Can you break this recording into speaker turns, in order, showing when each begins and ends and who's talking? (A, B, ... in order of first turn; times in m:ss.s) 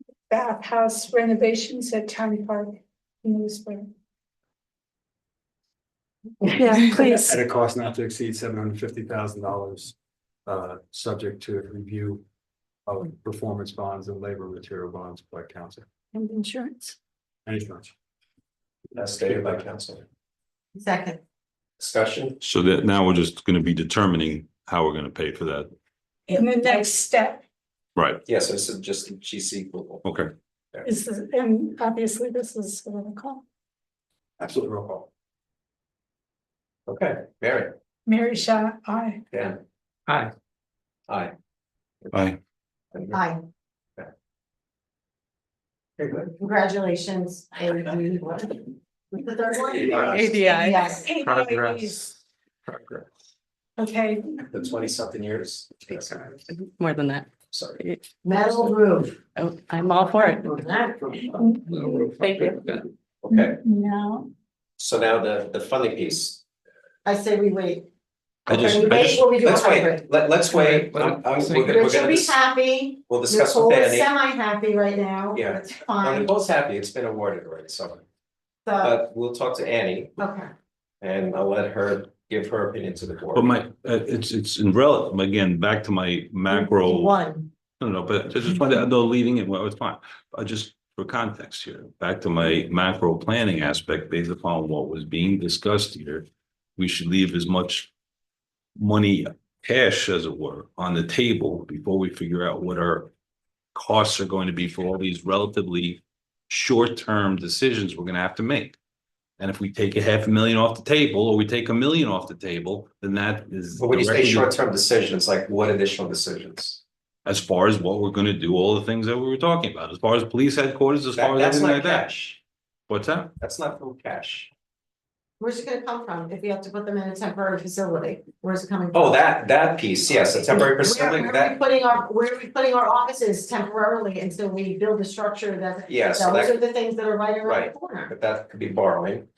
0:00.3-0:03.9 A
0:06.5-0:07.4 A
0:06.9-0:09.9 B
0:10.4-0:12.2 B
0:12.9-0:15.9 B
0:16.1-0:16.9 A
0:17.4-0:17.9 B
0:19.0-0:19.6 B
0:19.0-0:20.0 C
0:20.8-0:21.2 D
0:21.8-0:22.4 C
0:22.4-0:25.7 E
0:26.3-0:27.4 A
0:28.0-0:28.2 E
0:28.2-0:30.0 C
0:30.0-0:30.3 E
0:30.8-0:33.4 A
0:34.4-0:35.1 B
0:36.9-0:37.7 C
0:38.0-0:39.2 A
0:39.3-0:39.6 C
0:40.1-0:40.3 F
0:41.1-0:41.3 C
0:42.1-0:42.4 E
0:42.9-0:43.2 C
0:43.1-0:43.4 D
0:46.0-0:46.3 C
0:46.4-0:51.1 D
0:49.9-0:50.3 C
0:50.1-0:50.9 G
0:50.7-0:52.0 A
0:51.2-0:52.1 F
0:52.6-0:53.0 F
0:53.8-0:54.4 A
0:54.5-0:56.3 C
0:55.9-0:58.7 G
0:57.5-0:57.8 C
0:58.2-0:59.2 D
0:59.3-1:00.6 G
0:59.9-1:01.4 D
1:01.3-1:02.1 A
1:01.6-1:02.9 F
1:02.2-1:02.7 G
1:03.2-1:03.6 C
1:03.3-1:04.3 A
1:04.8-1:06.4 C
1:07.0-1:07.8 D
1:08.5-1:10.0 D
1:08.5-1:09.2 E
1:08.8-1:12.3 C
1:10.5-1:12.3 F
1:11.7-1:16.3 D
1:13.1-1:14.1 C
1:15.3-1:18.0 C
1:18.6-1:19.0 D
1:18.8-1:20.2 C
1:20.2-1:20.5 D
1:21.0-1:23.5 C
1:23.3-1:27.1 E
1:26.5-1:27.5 D
1:27.8-1:37.9 E
1:38.8-1:43.1 E
1:43.7-1:48.8 E
1:49.4-1:54.5 E
1:53.7-1:56.8 C
1:57.2-2:02.1 E
2:01.1-2:02.4 C
2:02.9-2:03.3 E
2:03.4-2:04.5 C
2:05.4-2:09.3 D
2:08.9-2:11.6 C
2:10.1-2:18.1 D
2:15.9-2:16.6 C
2:17.4-2:19.3 C